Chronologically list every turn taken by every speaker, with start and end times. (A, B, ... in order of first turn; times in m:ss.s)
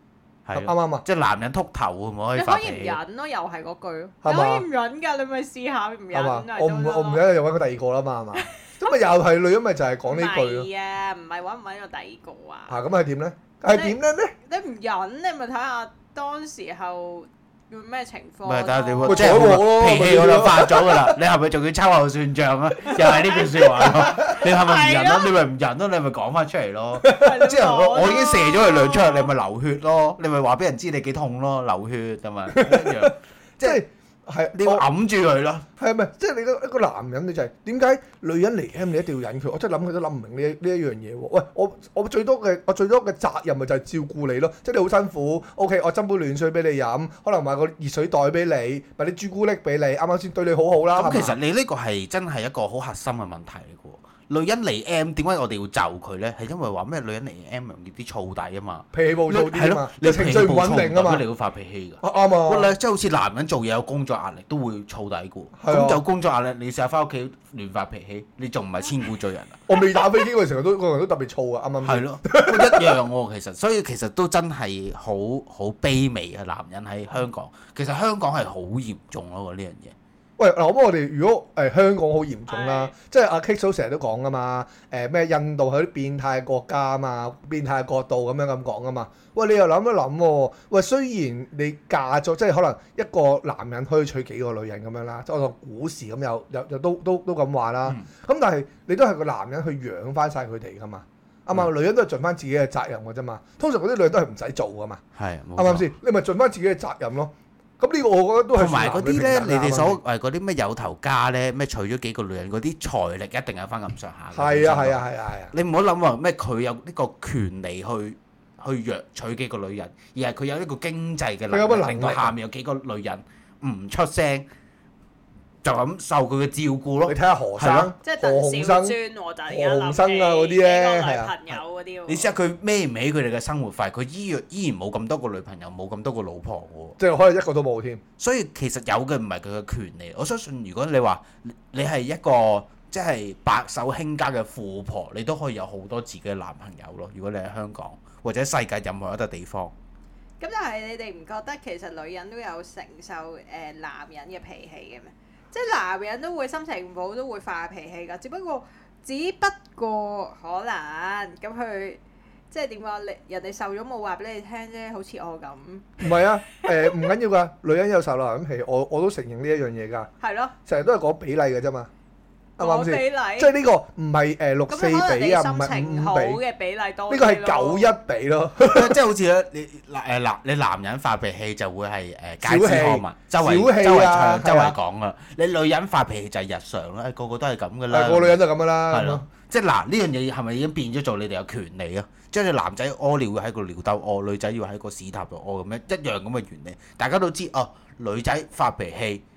0:00.4-0:03.0 A
0:00.5-0:01.0 B
0:02.4-0:07.2 C
0:04.2-0:04.6 B
0:06.1-0:10.7 B
0:10.0-0:12.8 C
0:12.7-0:14.3 B
0:13.7-0:19.5 C
0:18.4-0:33.8 A
0:19.1-0:21.2 B
0:22.9-0:25.3 C
0:23.8-0:24.1 B
0:27.0-0:27.6 B
0:27.1-0:29.3 C
0:32.5-0:34.8 B
0:34.6-0:35.6 A
0:35.8-0:51.4 B
0:50.9-1:09.6 A
0:58.9-1:01.2 B
1:02.0-1:02.7 B
1:05.6-1:06.0 B
1:09.7-1:13.0 B
1:11.8-1:19.9 A
1:20.4-1:45.0 B
1:22.5-1:22.9 C
1:45.1-1:45.9 A
1:45.6-1:50.0 B
1:48.5-2:04.4 A
1:54.3-1:55.5 B
2:01.5-2:02.3 B
2:05.6-2:07.9 A
2:07.0-2:08.9 B
2:08.0-2:12.3 C
2:09.5-2:11.3 B
2:12.1-2:17.0 A
2:17.0-2:18.0 B
2:18.2-2:29.7 A
2:30.4-2:46.1 C
2:46.0-2:50.1 B
2:46.6-2:47.0 C
2:50.2-2:50.5 C
2:50.6-2:51.9 B
2:52.6-2:56.4 B
2:52.6-2:53.5 C
2:54.7-2:57.9 C
2:57.1-2:59.0 B
2:58.6-3:08.4 A
3:02.4-3:04.8 B
3:07.9-3:09.3 B
3:08.9-3:19.2 A